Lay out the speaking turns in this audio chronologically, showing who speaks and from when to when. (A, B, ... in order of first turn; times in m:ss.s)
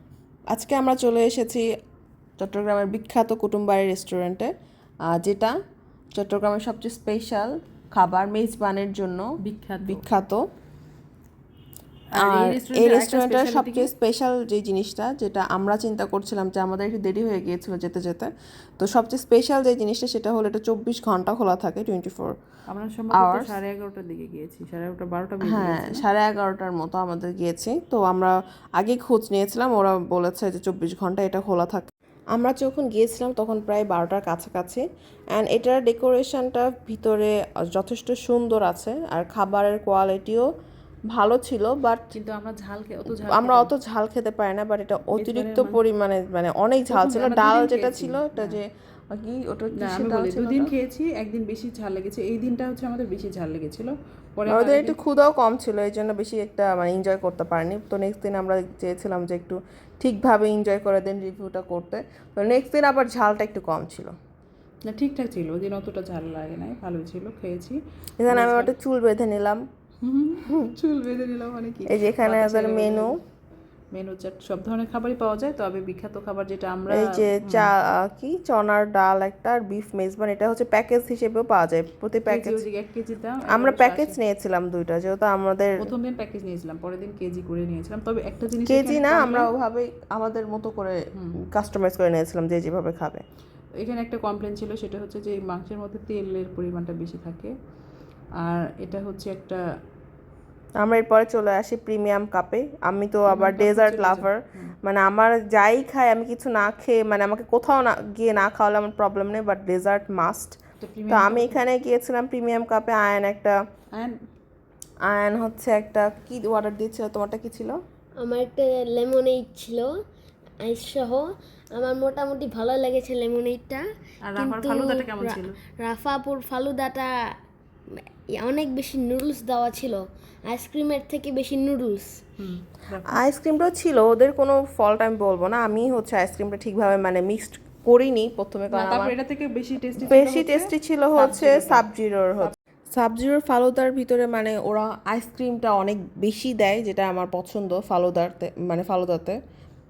0:00.5-0:01.7 A
0:02.4-0:04.5 A
0:05.0-0:05.5 A
0:06.2-0:10.4 A
0:09.4-0:10.0 B
0:12.1-0:13.9 B
0:12.2-0:22.4 A
0:22.7-0:26.0 B
0:23.1-0:23.5 A
0:25.4-0:40.5 A
0:41.1-0:42.1 A
0:42.1-0:43.7 B
0:43.1-0:50.7 A
0:45.2-0:45.8 B
0:46.9-0:48.6 B
0:49.8-0:55.0 B
0:54.5-1:04.1 A
1:04.9-1:08.7 B
1:08.2-1:09.6 A
1:10.0-1:13.1 B
1:10.4-1:10.7 A
1:11.9-1:13.1 A
1:13.9-1:17.7 B
1:16.9-1:22.6 A
1:22.3-1:24.2 B
1:23.5-1:25.9 A
1:25.8-1:29.5 B
1:28.6-1:33.2 A
1:33.8-1:37.5 B
1:38.4-1:39.6 B
1:40.8-1:53.6 A
1:43.3-1:44.7 B
1:50.8-1:51.6 B
1:53.9-1:54.2 B
1:55.0-1:57.8 A
1:58.2-1:59.9 C
2:00.6-2:03.8 C
2:04.2-2:05.6 B
2:04.3-2:07.1 C
2:07.9-2:12.2 C
2:12.4-2:13.2 B
2:13.1-2:19.1 A
2:18.7-2:21.8 B
2:20.0-2:29.4 A